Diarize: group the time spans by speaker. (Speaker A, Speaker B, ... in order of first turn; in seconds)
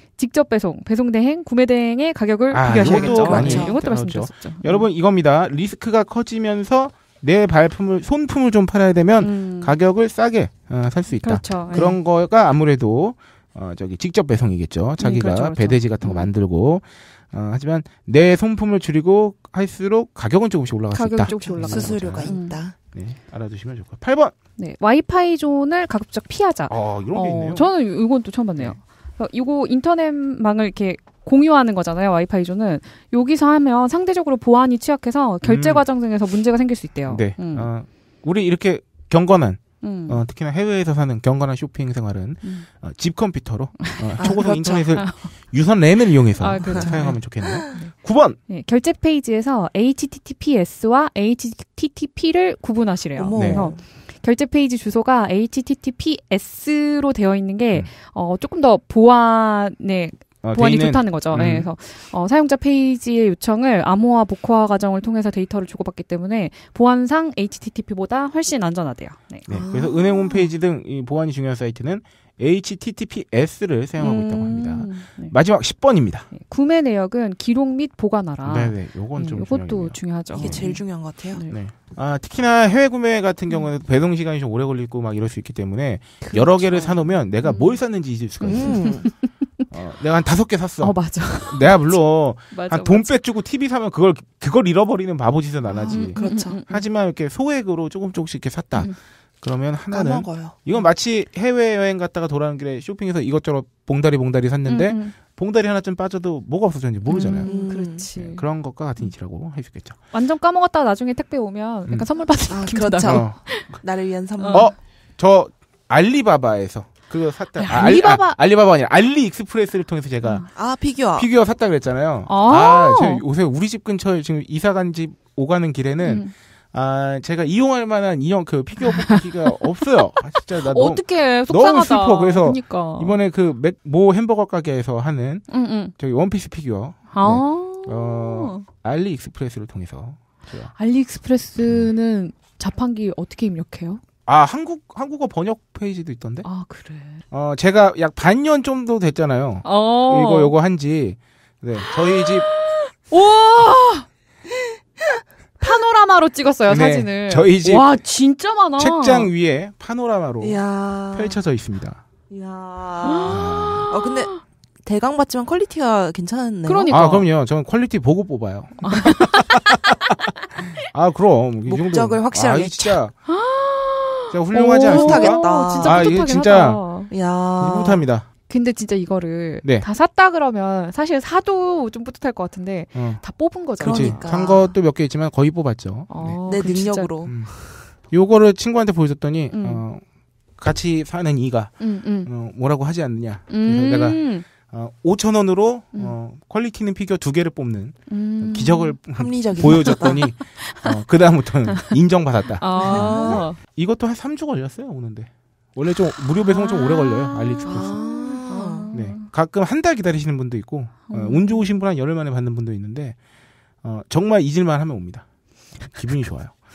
Speaker A: 0.2-4.9, 9.2-9.8, 11.2-11.9, 15.0-16.3, 20.9-22.6, 24.6-37.7, 39.8-40.2, 43.8-45.3, 46.4-47.9, 48.5-69.5, 74.0-75.3, 76.3-81.6, 86.2-87.8, 88.4-89.3, 90.8-92.0, 92.5-93.1, 95.8-96.9, 104.7-105.2, 107.1-108.5, 110.1-113.7, 114.4-114.7, 117.6-118.4, 122.3-123.2, 126.0-126.3, 128.8-129.6, 130.4-133.2, 135.5-135.9, 137.1-138.7, 140.8-144.0, 146.4-147.2, 149.6-150.5, 151.8-154.1, 155.6-159.3, 163.0-164.4, 166.7-167.2, 168.8-169.9, 173.3-177.1, 178.5-184.3, 186.1-187.4, 189.5-189.8, 191.8-192.3, 193.5-194.4, 198.1-199.0, 199.6-201.0, 202.6-203.6, 206.4-209.3, 211.1-211.7
Speaker B: 2.5-22.3, 22.9-24.3, 26.7-27.7, 35.4-35.8, 37.1-48.4, 53.3-53.7, 60.4-61.7, 69.5-76.3, 78.5-80.8, 81.5-89.0, 89.7-107.5, 108.2-110.0, 113.1-113.8, 114.5-120.5, 121.2-140.7, 144.3-146.5, 147.3-152.5, 156.7-157.9, 158.8-160.6, 161.1-162.0, 163.3-163.9, 166.9-169.8, 170.6-173.1, 174.3-176.8, 177.6-178.3, 182.9-183.2, 183.8-186.4, 187.2-187.5, 188.1-190.0, 190.6-208.0, 208.9-213.2, 213.8-215.2, 215.8-216.6
Speaker C: 2.8-3.8, 11.7-12.0, 21.4-22.8, 44.2-44.6, 46.7-47.7, 53.2-53.8, 69.5-70.5, 80.4-81.4, 88.4-89.1, 95.7-96.6, 99.9-100.6, 107.5-108.1, 112.5-114.7, 120.5-121.3, 160.4-161.4, 162.3-164.3, 164.8-167.1, 171.7-173.0, 174.8-176.2, 177.1-178.0, 183.8-184.7, 186.5-187.4, 199.1-200.2, 202.8-203.4, 207.7-208.9